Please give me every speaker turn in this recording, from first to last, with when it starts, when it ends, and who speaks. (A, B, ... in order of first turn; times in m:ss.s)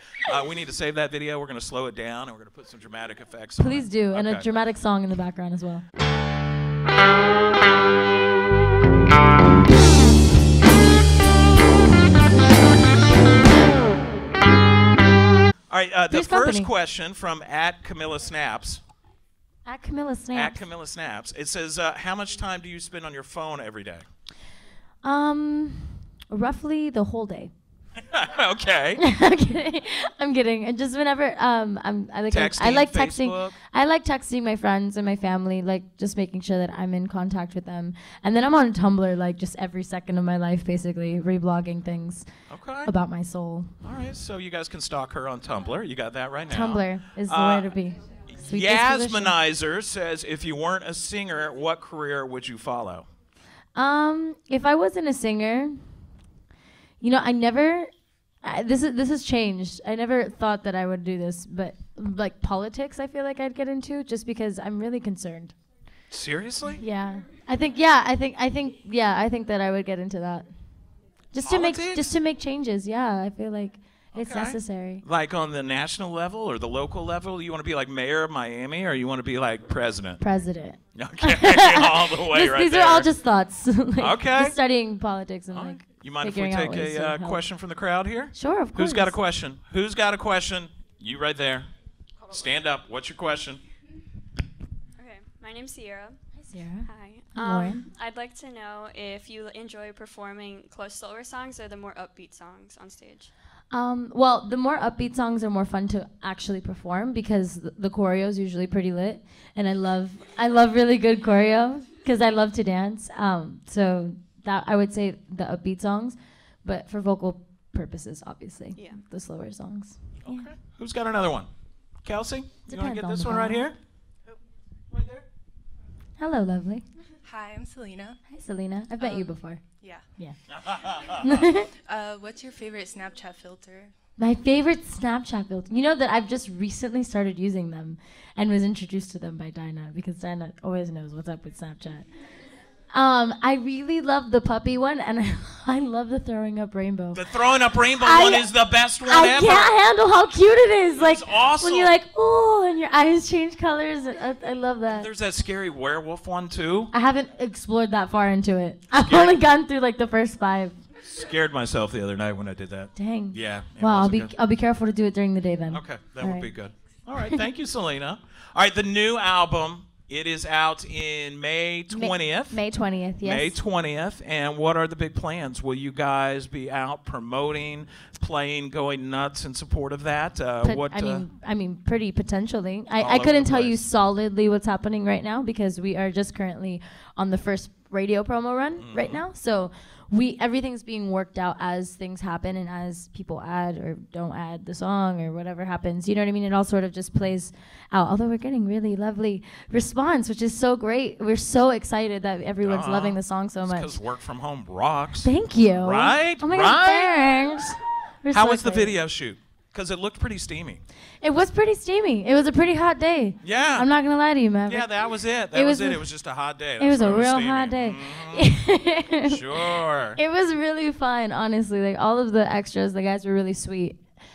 0:00.2-0:04.5 A
0:03.6-0:05.8 B
0:15.7-0:18.8 A
0:16.1-0:16.7 B
0:19.6-0:20.6 B
0:20.3-0:24.0 A
0:25.0-0:27.5 B
0:28.0-0:29.0 A
0:29.0-0:42.3 B
0:32.3-0:33.6 A
0:42.5-0:42.9 A
0:42.8-0:43.7 B
0:43.8-0:47.7 A
0:46.5-0:49.4 B
0:48.3-0:53.1 A
0:53.8-0:55.8 B
0:57.0-0:57.9 B
0:58.4-1:05.5 B
1:06.1-1:06.8 A
1:06.7-1:10.5 B
1:11.3-1:15.0 B
1:11.4-1:12.1 A
1:14.1-1:20.2 A
1:20.2-1:27.4 B
1:21.0-1:23.1 A
1:24.0-1:24.6 A
1:25.5-1:31.7 A
1:28.3-1:29.2 B
1:32.2-1:33.6 A
1:35.0-1:36.2 C
1:36.5-1:37.8 B
1:36.8-1:43.3 C
1:43.7-2:00.5 B
1:58.8-1:59.0 C
2:00.2-2:01.5 A
2:02.0-2:03.8 A
2:02.7-2:03.7 B
2:04.9-2:05.2 A
2:06.2-2:06.8 B
2:07.2-2:08.2 D
2:08.3-2:09.6 B
2:09.0-2:10.0 D
2:10.5-2:11.5 A
2:11.1-2:11.7 B
2:11.8-2:13.9 D
2:14.2-2:22.1 B
2:22.9-2:28.5 B
2:27.1-2:29.7 A
2:29.0-2:35.1 B
2:31.0-2:32.0 A
2:34.9-2:36.9 A
2:36.9-2:40.8 B
2:38.9-2:39.4 A
2:41.0-2:44.3 A
2:43.0-2:46.5 B
2:45.7-2:52.6 A
2:51.9-2:53.6 B
2:53.2-3:01.3 A
3:00.6-3:24.0 B
3:03.0-3:03.8 A
3:08.8-3:09.2 A
3:22.6-3:27.4 A
3:25.2-3:29.0 B
3:28.3-3:30.8 A
3:31.2-3:35.0 B
3:33.4-3:33.9 A
3:34.7-3:38.5 A
3:35.5-3:36.0 B
3:36.8-3:44.0 B
3:39.2-3:40.2 A